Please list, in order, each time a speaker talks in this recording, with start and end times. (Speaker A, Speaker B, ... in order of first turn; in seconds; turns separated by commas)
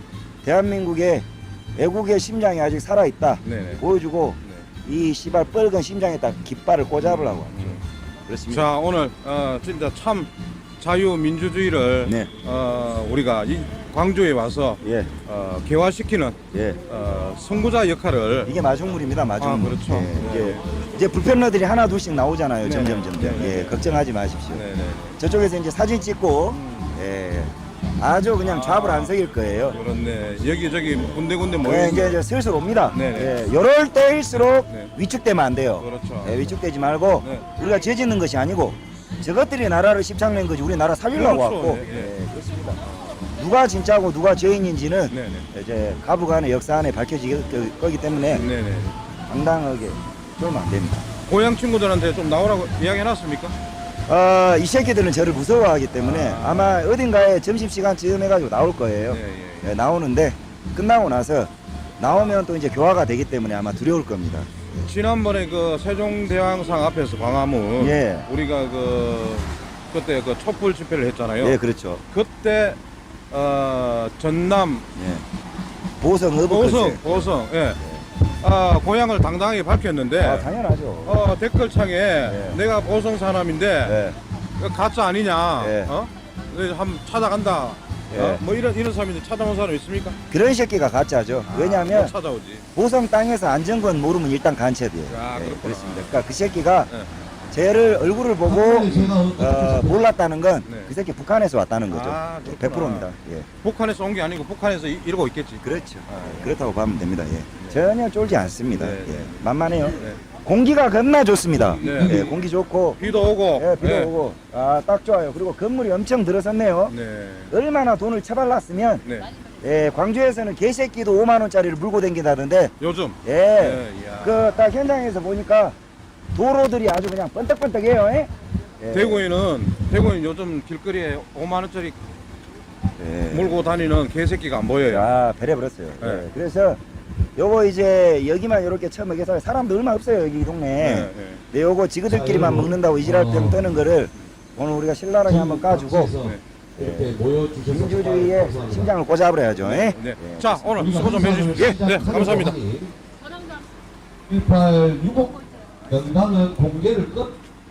Speaker A: 0.4-8.7, Speaker B: 3.4-3.8, Speaker B: 7.0-7.8, Speaker B: 8.5-18.5, Speaker A: 12.1-12.3, Speaker A: 14.8-15.1, Speaker A: 16.5-16.8, Speaker A: 18.4-24.6, Speaker B: 19.4-20.6, Speaker B: 22.6-23.8, Speaker B: 24.5-25.2, Speaker A: 25.2-29.8, Speaker B: 26.5-27.0, Speaker B: 28.4-29.2, Speaker B: 29.7-32.2, Speaker A: 31.6-42.8, Speaker B: 32.9-33.4, Speaker B: 34.7-34.9, Speaker B: 35.8-36.5, Speaker B: 37.2-37.5, Speaker B: 41.1-42.1, Speaker B: 42.8-43.3, Speaker A: 43.4-48.5, Speaker B: 45.1-45.5, Speaker B: 48.3-49.0, Speaker A: 49.3-51.1, Speaker B: 51.3-53.6, Speaker A: 54.1-64.7, Speaker B: 56.0-56.9, Speaker B: 59.1-59.7, Speaker B: 64.8-71.6, Speaker A: 67.8-68.3, Speaker A: 71.4-72.0, Speaker B: 72.1-72.8, Speaker B: 73.3-74.9, Speaker A: 75.0-75.2, Speaker A: 76.0-78.0, Speaker B: 76.5-77.8, Speaker B: 78.4-80.5, Speaker A: 80.2-81.2, Speaker B: 81.0-84.0, Speaker A: 82.2-82.6, Speaker A: 83.8-84.2, Speaker B: 84.6-90.2, Speaker A: 85.6-85.9, Speaker A: 88.1-88.4, Speaker A: 90.3-92.2, Speaker B: 91.5-92.7, Speaker A: 92.8-96.9, Speaker B: 95.1-96.1, Speaker B: 96.9-97.1, Speaker A: 97.5-103.5, Speaker C: 98.4-100.0, Speaker B: 98.8-99.3, Speaker B: 100.6-100.9, Speaker B: 101.9-106.5, Speaker A: 105.6-117.0, Speaker B: 108.7-110.2, Speaker C: 111.6-112.1, Speaker B: 111.8-112.4, Speaker B: 113.0-114.1, Speaker B: 116.9-117.5, Speaker A: 117.5-119.0, Speaker B: 119.0-119.3, Speaker A: 119.6-125.8, Speaker B: 122.8-124.6, Speaker A: 126.3-129.3, Speaker B: 128.9-132.0, Speaker A: 133.0-133.7, Speaker B: 133.3-135.1, Speaker A: 134.8-136.8, Speaker B: 136.0-136.3, Speaker A: 137.4-146.2, Speaker B: 140.8-141.4, Speaker C: 142.1-143.7, Speaker C: 145.3-148.9, Speaker A: 146.8-150.9, Speaker B: 149.6-152.6, Speaker C: 150.8-152.9, Speaker A: 151.5-152.5, Speaker C: 154.3-157.3